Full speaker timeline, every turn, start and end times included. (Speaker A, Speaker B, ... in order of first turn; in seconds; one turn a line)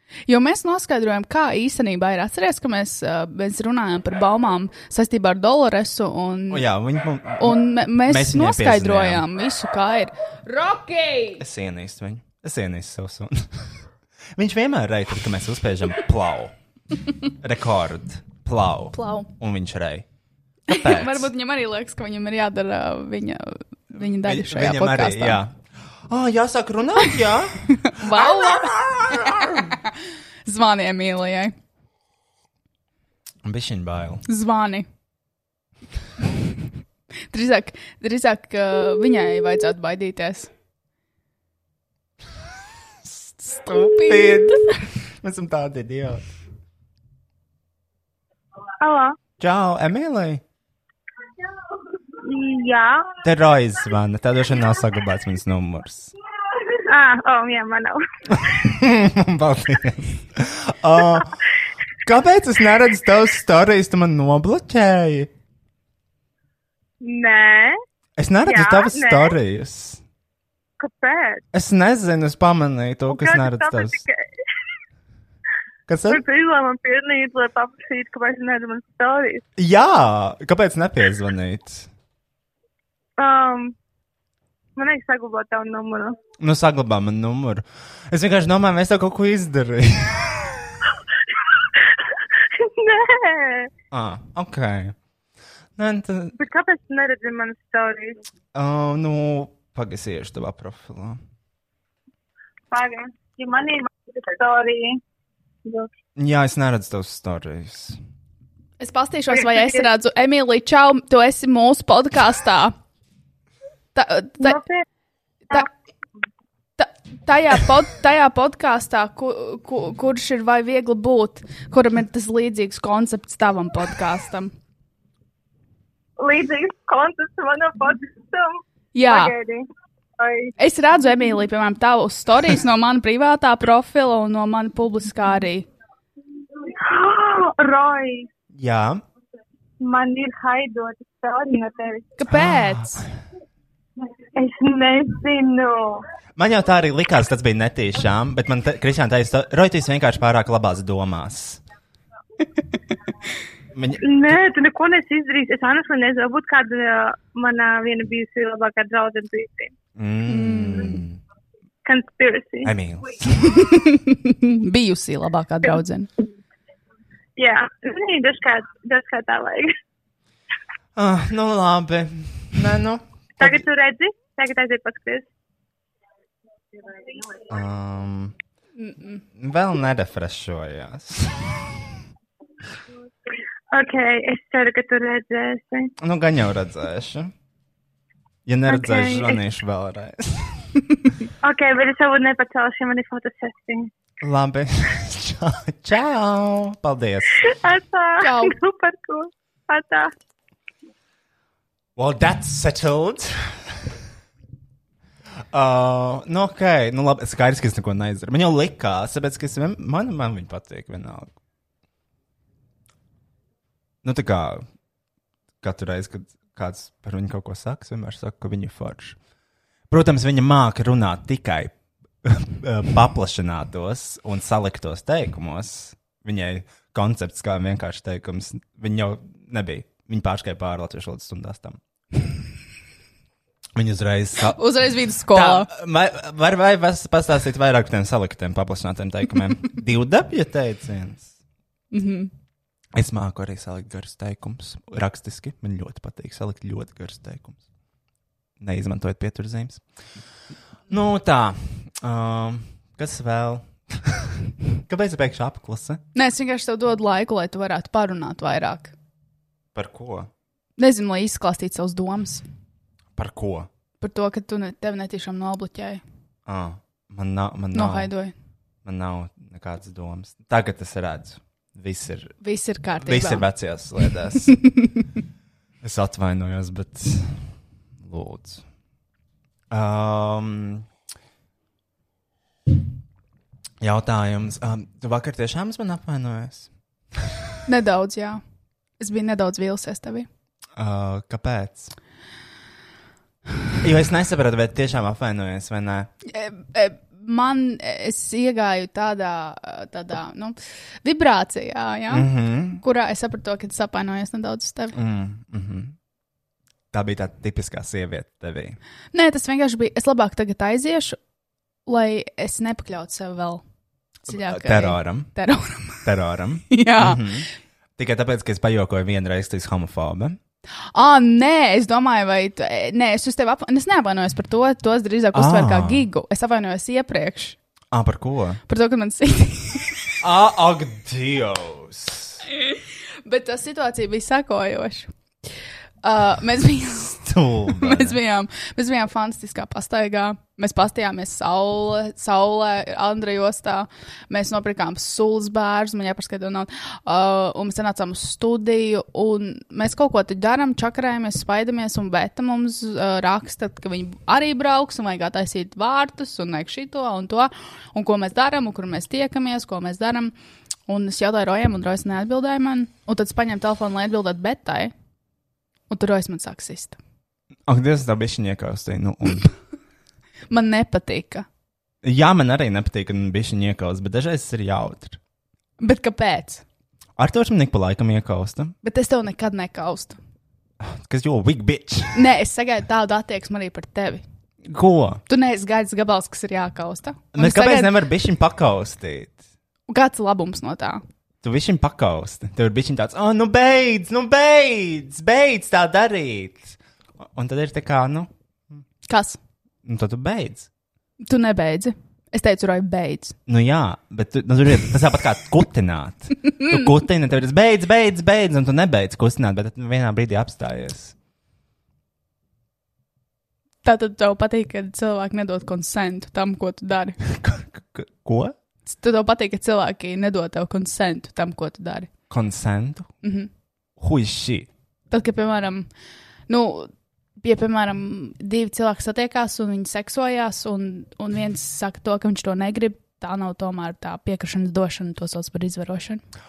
Speaker A: 0.3-6.7
Speaker B: 6.5-9.2
Speaker A: 7.4-11.4
Speaker B: 11.4-13.6
Speaker B: 14.3-16.5
Speaker B: 17.3-20.1
Speaker A: 18.9-19.3
Speaker B: 20.7-21.3
Speaker A: 20.7-25.4
Speaker B: 24.2-25.6
Speaker B: 26.1-29.8
Speaker A: 27.7-31.5
Speaker B: 33.4-34.2
Speaker A: 34.2-34.9
Speaker A: 37.3-40.5
Speaker B: 43.5-46.3
Speaker A: 43.6-44.8
Speaker C: 48.8-49.2
Speaker B: 49.4-50.4
Speaker C: 52.2-53.1
Speaker B: 53.2-56.1
Speaker C: 56.7-58.0
Speaker B: 58.3-61.3
Speaker B: 62.0-65.3
Speaker C: 67.0-67.8
Speaker B: 68.2-70.0
Speaker C: 68.5-69.3
Speaker C: 70.8-71.4
Speaker B: 71.5-74.0
Speaker C: 73.1-74.2
Speaker B: 75.9-76.2
Speaker C: 76.1-79.4
Speaker B: 79.6-81.9
Speaker C: 83.2-83.7
Speaker C: 84.8-86.2
Speaker B: 86.4-90.8
Speaker C: 92.4-93.7
Speaker B: 93.9-94.9
Speaker B: 95.8-96.3
Speaker C: 96.3-98.2
Speaker B: 98.5-101.2
Speaker C: 102.7-105.0
Speaker B: 106.2-108.0
Speaker A: 108.8-112.7
Speaker C: 109.4-109.8
Speaker A: 113.9-114.6
Speaker C: 114.4-114.8
Speaker A: 116.8-124.5
Speaker C: 126.2-129.7
Speaker A: 128.9-129.3
Speaker C: 130.2-130.5
Speaker A: 130.6-135.7
Speaker C: 136.7-138.3
Speaker B: 138.5-139.0
Speaker C: 139.8-142.1
Speaker A: 142.2-143.1
Speaker B: 142.3-142.8
Speaker C: 144.3-146.0
Speaker B: 146.4-151.6
Speaker B: 153.7-154.4
Speaker C: 154.0-159.7
Speaker B: 159.9-161.2
Speaker A: 160.2-161.0
Speaker C: 161.8-162.7
Speaker B: 162.6-163.5
Speaker A: 163.4-166.1
Speaker C: 167.4-169.7
Speaker B: 170.9-173.6
Speaker C: 173.4-175.3
Speaker B: 177.5-178.3
Speaker A: 178.8-179.2
Speaker B: 179.3-181.8
Speaker C: 183.7-185.9
Speaker B: 186.0-187.3
Speaker B: 188.4-190.7
Speaker C: 188.7-189.4
Speaker C: 191.4-193.9
Speaker B: 194.2-197.4
Speaker C: 197.4-200.1
Speaker A: 198.2-198.5
Speaker B: 201.9-203.9
Speaker B: 205.5-211.3
Speaker B: 214.0-214.6
Speaker B: 215.6-219.2
Speaker B: 219.9-231.8
Speaker B: 233.7-234.6
Speaker A: 234.5-235.7
Speaker B: 235.3-241.3
Speaker A: 241.9-242.3
Speaker B: 242.9-247.6
Speaker B: 248.6-249.8
Speaker B: 250.9-256.0
Speaker A: 256.1-258.9
Speaker B: 259.7-260.3
Speaker A: 260.8-262.4
Speaker B: 263.1-263.7
Speaker A: 264.0-266.0
Speaker B: 266.4-268.1
Speaker A: 267.7-268.3
Speaker B: 268.8-272.4
Speaker A: 272.4-273.5
Speaker B: 273.0-274.6
Speaker B: 275.8-278.6
Speaker B: 279.7-280.9
Speaker B: 283.8-287.6
Speaker A: 287.7-288.4
Speaker A: 289.0-290.3
Speaker B: 290.8-291.9
Speaker B: 293.8-296.1
Speaker A: 296.2-302.3
Speaker B: 302.1-302.8
Speaker A: 302.8-305.0
Speaker B: 304.9-305.9
Speaker B: 306.9-308.8
Speaker A: 309.1-311.2
Speaker A: 311.9-313.6
Speaker A: 314.3-316.1
Speaker B: 314.3-315.3
Speaker B: 316.0-320.4
Speaker A: 316.7-317.4
Speaker A: 320.9-327.6
Speaker B: 325.3-326.1
Speaker B: 327.9-328.6
Speaker A: 328.7-329.9
Speaker B: 330.2-332.4
Speaker A: 332.6-335.1
Speaker A: 336.0-360.3
Speaker B: 337.2-338.2
Speaker A: 360.9-364.9
Speaker A: 365.9-367.0
Speaker B: 367.7-369.5
Speaker A: 370.5-371.4
Speaker B: 372.0-375.2
Speaker A: 375.8-376.6
Speaker B: 377.2-378.7
Speaker A: 378.8-380.2
Speaker B: 380.8-382.3
Speaker A: 382.1-384.2
Speaker B: 384.6-385.2
Speaker A: 385.3-388.0
Speaker B: 387.3-389.4
Speaker A: 389.9-391.0
Speaker B: 391.4-398.3
Speaker A: 399.1-399.4
Speaker B: 399.8-400.7
Speaker A: 401.2-403.4
Speaker B: 403.5-411.1
Speaker A: 413.8-417.2
Speaker B: 417.2-418.5
Speaker A: 418.9-422.1
Speaker B: 422.3-423.1
Speaker A: 423.2-423.5
Speaker B: 424.0-424.7
Speaker A: 425.1-425.9
Speaker A: 426.5-436.2